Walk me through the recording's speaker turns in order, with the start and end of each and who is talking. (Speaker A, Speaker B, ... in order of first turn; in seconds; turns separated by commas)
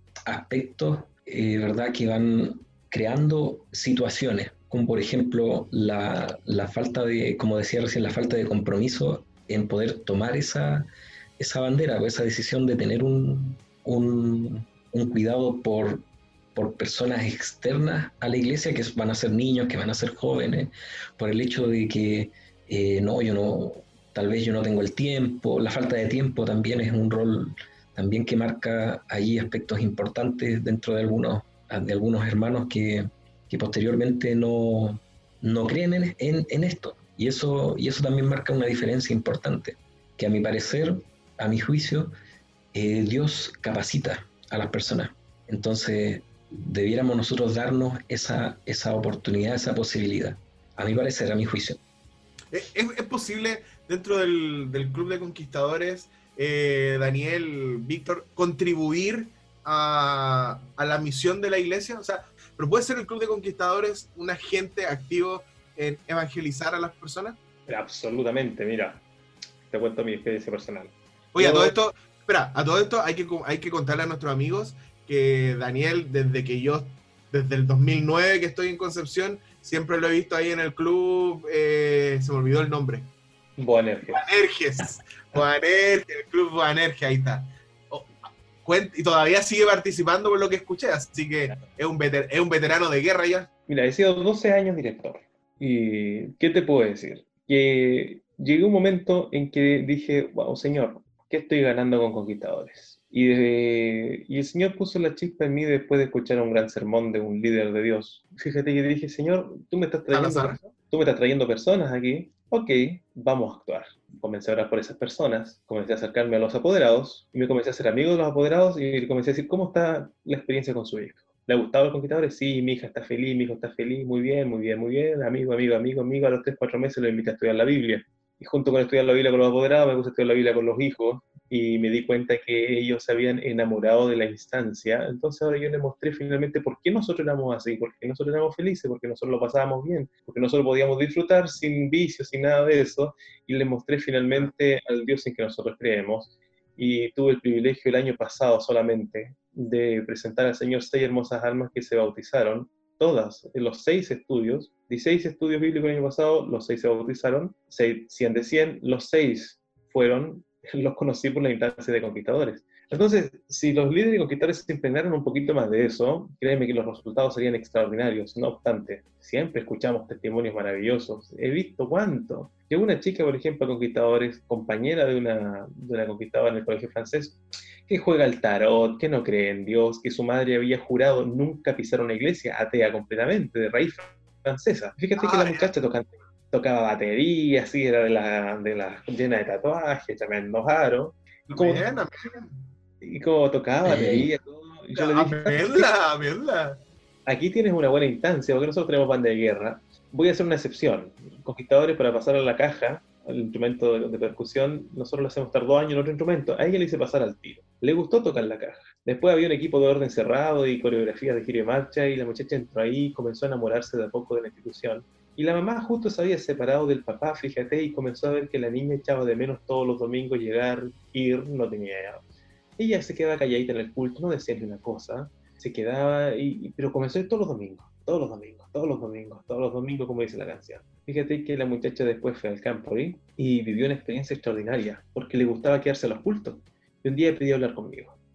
Speaker A: 0.2-42.1, Speaker A: 42.7-51.8, Speaker B: 52.5-67.4, Speaker C: 67.7-69.0, Speaker C: 69.7-71.7, Speaker B: 71.3-83.1, Speaker C: 83.6-84.3, Speaker B: 84.0-88.1, Speaker B: 88.6-93.5, Speaker C: 93.7-191.9, Speaker B: 110.1-110.6, Speaker B: 185.2-185.7, Speaker B: 191.5-192.5, Speaker C: 193.0-195.9, Speaker A: 193.8-194.3, Speaker B: 194.9-196.8, Speaker C: 197.2-222.2, Speaker C: 222.8-238.1